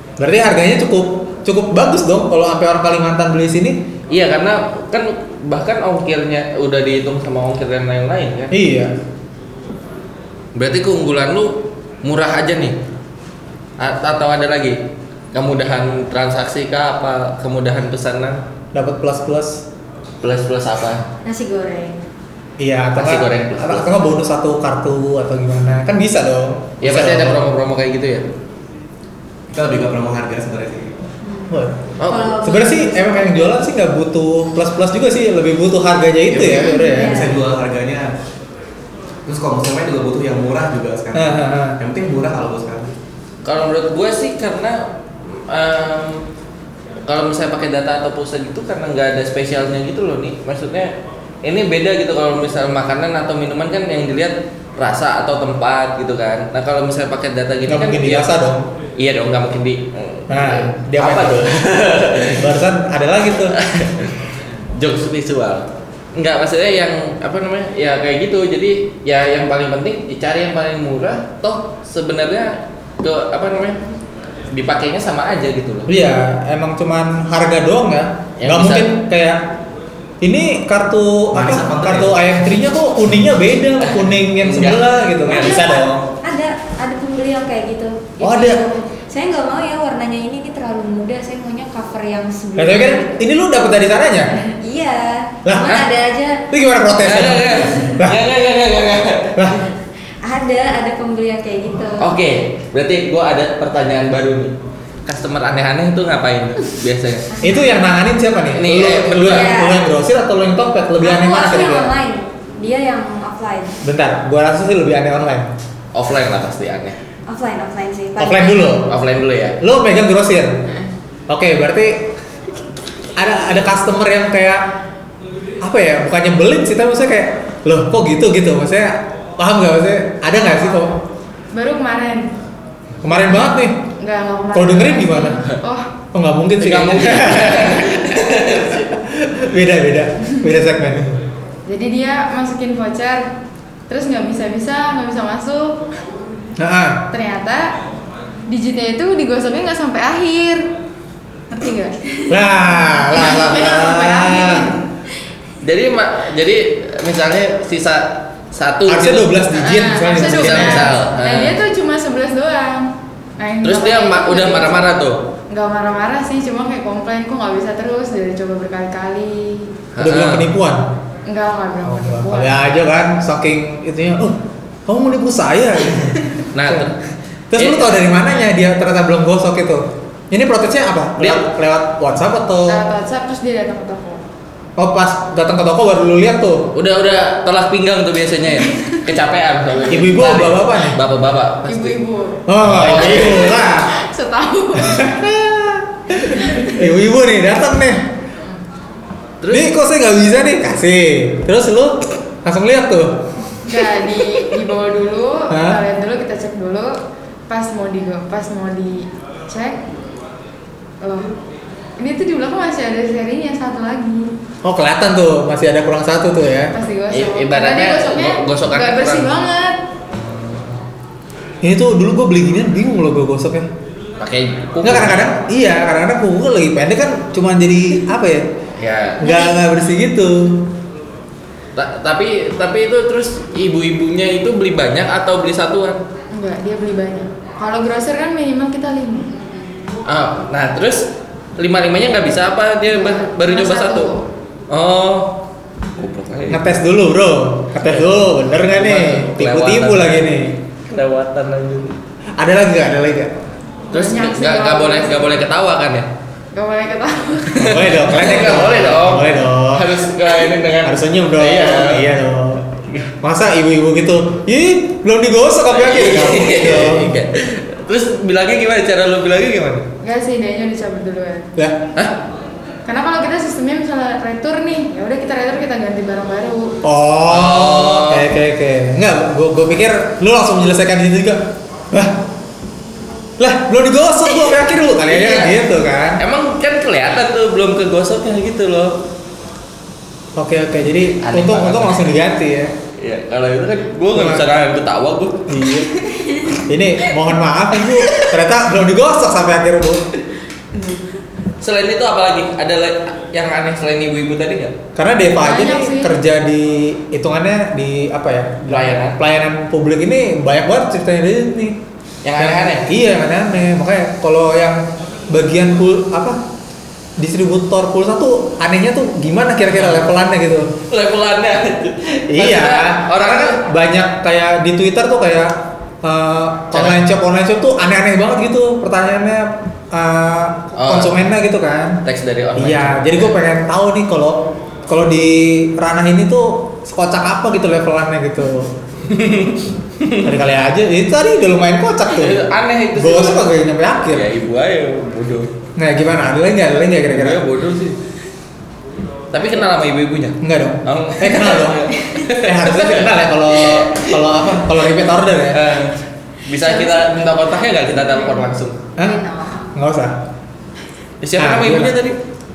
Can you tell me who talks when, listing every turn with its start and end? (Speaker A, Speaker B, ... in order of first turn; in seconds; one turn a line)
Speaker A: 0.2-3.8
Speaker B: 4.1-8.5
Speaker A: 8.5-8.9
Speaker B: 10.5-12.8
Speaker B: 13.8-18.4
Speaker A: 18.7-19.6
Speaker B: 20.2-21.0
Speaker C: 21.2-22.0
Speaker A: 22.6-27.4
Speaker B: 22.9-23.9
Speaker B: 26.8-28.3
Speaker D: 29.5-31.0
Speaker C: 31.2-31.5
Speaker A: 31.5-31.8
Speaker B: 32.0-32.3
Speaker C: 32.1-33.6
Speaker A: 32.3-37.3
Speaker D: 36.3-38.1
Speaker C: 36.3-37.4
Speaker D: 39.2-42.9
Speaker A: 41.1-41.8
Speaker B: 43.4-46.2
Speaker B: 47.0-58.3
Speaker A: 57.7-58.7
Speaker B: 59.0-62.5
Speaker A: 60.3-61.5
Speaker A: 62.2-63.5
Speaker B: 63.5-73.8
Speaker B: 74.5-75.9
Speaker A: 75.9-79.5
Speaker B: 78.4-78.9
Speaker A: 80.2-86.0
Speaker D: 81.3-82.2
Speaker B: 83.8-85.6
Speaker C: 85.2-93.2
Speaker A: 88.2-88.6
Speaker A: 92.5-94.3
Speaker C: 94.3-96.5
Speaker A: 95.4-95.8
Speaker A: 96.5-98.2
Speaker B: 97.0-99.6
Speaker A: 99.3-99.6
Speaker C: 100.2-102.1
Speaker B: 102.0-107.3
Speaker C: 107.3-107.8
Speaker A: 107.4-111.9
Speaker B: 108.5-109.6
Speaker C: 109.2-109.9
Speaker C: 111.0-113.8
Speaker A: 113.8-115.5
Speaker B: 115.9-117.0
Speaker C: 117.3-118.8
Speaker A: 118.2-118.9
Speaker B: 118.9-119.6
Speaker A: 119.6-120.6
Speaker A: 121.3-122.1
Speaker A: 123.2-124.7
Speaker A: 125.6-130.9
Speaker E: 130.4-131.0
Speaker E: 131.5-132.3
Speaker A: 133.0-133.8
Speaker E: 134.0-135.9
Speaker A: 134.5-135.4
Speaker A: 136.1-138.2
Speaker B: 136.6-138.9
Speaker A: 138.9-141.2
Speaker E: 141.7-143.3
Speaker E: 143.9-145.8
Speaker A: 146.6-147.0
Speaker E: 147.1-147.7
Speaker E: 148.5-150.7
Speaker E: 151.5-151.9
Speaker A: 152.3-154.7
Speaker E: 153.1-154.8
Speaker B: 155.6-159.3
Speaker A: 158.9-160.9
Speaker E: 159.5-164.9
Speaker B: 160.3-161.6
Speaker B: 163.6-165.2
Speaker E: 165.5-169.8
Speaker B: 169.9-170.5
Speaker A: 170.0-170.9
Speaker E: 171.2-172.6
Speaker A: 171.8-176.9
Speaker B: 176.5-177.0
Speaker A: 177.5-182.8
Speaker B: 177.6-178.1
Speaker B: 181.2-181.4
Speaker E: 182.7-184.2
Speaker A: 184.8-186.7
Speaker B: 186.7-192.0
Speaker E: 188.6-189.0
Speaker A: 189.9-191.0
Speaker E: 191.7-192.4
Speaker A: 192.5-193.9
Speaker B: 192.6-193.6
Speaker E: 193.0-195.1
Speaker A: 194.7-198.0
Speaker B: 199.4-199.7
Speaker A: 199.5-203.3
Speaker E: 203.6-209.8
Speaker A: 205.5-205.8
Speaker E: 211.0-211.3
Speaker E: 212.0-214.3
Speaker A: 214.6-216.7
Speaker E: 216.7-219.8
Speaker B: 217.1-219.4
Speaker B: 220.1-220.8
Speaker A: 221.6-223.7
Speaker B: 224.2-225.4
Speaker A: 224.8-228.5
Speaker B: 228.8-229.2
Speaker A: 229.2-230.7
Speaker B: 231.8-236.0
Speaker E: 236.3-239.5
Speaker B: 240.1-241.1
Speaker B: 241.6-244.1
Speaker E: 242.9-244.2
Speaker B: 244.7-245.3
Speaker B: 245.9-246.7
Speaker A: 246.5-250.6
Speaker B: 247.8-250.2
Speaker B: 250.8-251.9
Speaker A: 252.3-253.3
Speaker E: 253.9-255.4
Speaker B: 253.9-256.1
Speaker E: 256.5-257.6
Speaker B: 257.5-262.1
Speaker A: 257.6-260.0
Speaker A: 260.8-262.7
Speaker A: 263.2-267.1
Speaker B: 265.7-269.9
Speaker E: 270.0-271.5
Speaker E: 272.8-276.8
Speaker A: 276.8-282.2
Speaker B: 277.3-278.2
Speaker A: 283.4-286.2
Speaker B: 285.1-285.6
Speaker B: 286.2-289.0
Speaker A: 290.4-292.7
Speaker B: 291.2-292.0
Speaker B: 293.0-295.7
Speaker A: 294.1-294.4
Speaker A: 295.5-295.9
Speaker A: 296.6-300.0
Speaker B: 297.9-298.3
Speaker B: 301.6-304.8
Speaker A: 304.9-311.8
Speaker E: 305.4-306.1
Speaker B: 308.7-309.2
Speaker B: 312.2-312.9
Speaker A: 312.4-316.4
Speaker A: 317.2-320.7
Speaker B: 319.7-320.1
Speaker B: 320.9-323.6
Speaker A: 322.3-332.0
Speaker B: 326.7-327.0
Speaker B: 330.7-331.2
Speaker B: 332.0-333.4
Speaker A: 332.6-338.7
Speaker B: 339.0-340.3
Speaker A: 340.2-344.3
Speaker B: 342.1-343.5
Speaker B: 344.1-345.5
Speaker A: 345.8-347.4
Speaker B: 347.1-348.0
Speaker B: 349.3-358.8
Speaker A: 350.4-355.6
Speaker C: 356.6-357.1
Speaker A: 359.0-359.2
Speaker C: 359.0-359.7
Speaker A: 359.7-360.2
Speaker B: 361.2-362.2
Speaker A: 361.4-362.0